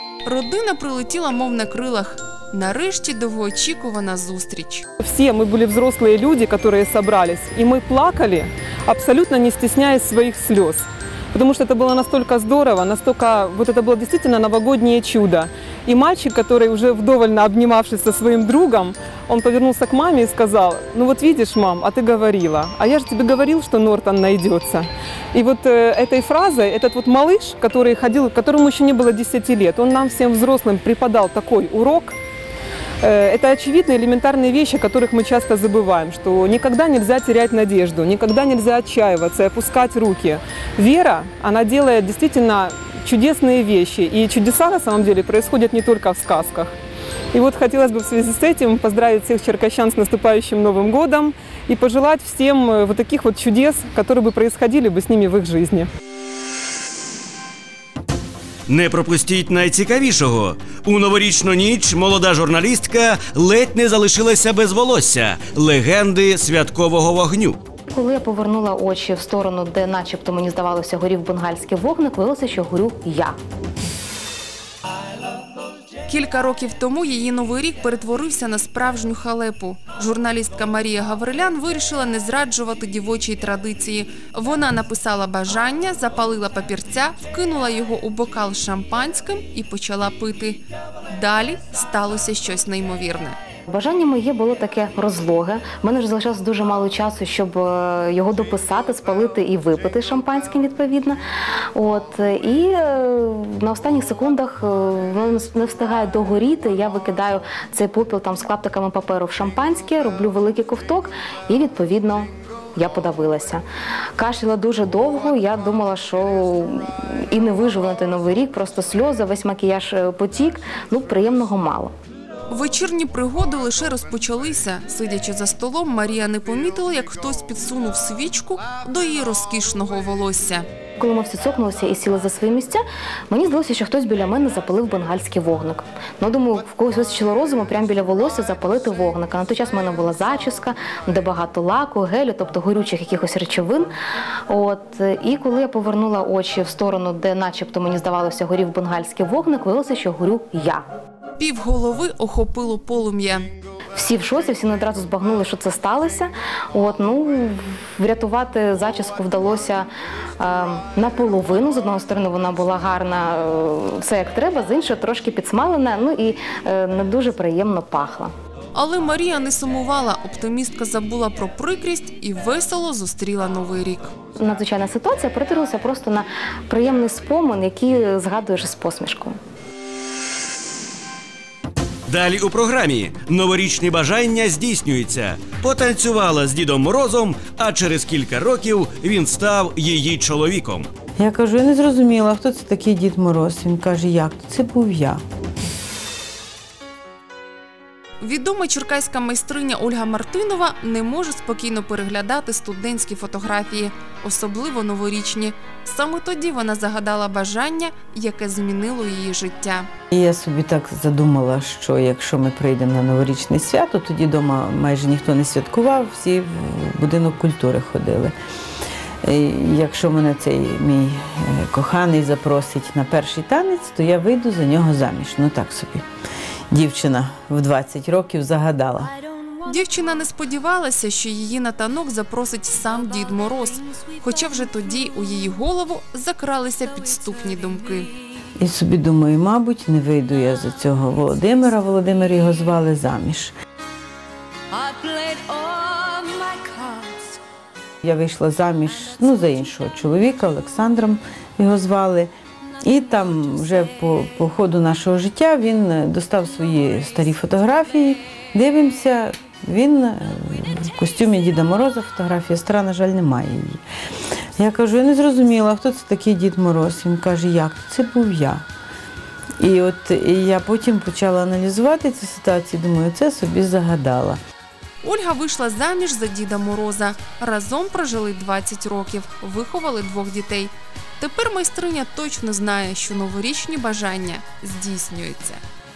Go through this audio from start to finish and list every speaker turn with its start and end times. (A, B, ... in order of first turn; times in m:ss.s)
0:00.2-0:04.8 A
0:05.0-0:32.2 B
0:33.0-0:46.8 B
0:47.3-0:55.9 B
0:58.7-1:07.6 C
1:07.9-1:13.4 D
1:16.1-1:33.4 A
1:33.7-1:41.2 D
1:41.7-1:53.6 D
1:54.2-2:01.9 D
2:02.5-2:10.6 A
2:11.0-2:23.9 D
2:24.5-2:30.8 D
2:31.4-2:33.5 A
2:34.0-2:39.9 D
2:40.4-2:48.3 D
2:48.7-2:54.1 A
2:54.4-2:59.4 D
3:02.1-3:10.9 C
3:11.2-3:15.2 E
3:18.2-3:29.9 A
3:30.1-3:38.3 E
3:39.2-3:46.0 E
3:46.7-3:49.1 E
3:49.6-3:58.1 A
3:58.6-4:03.5 E
4:08.0-4:23.8 E
4:24.6-4:28.6 E
4:29.6-4:34.4 E
4:35.0-4:45.6 A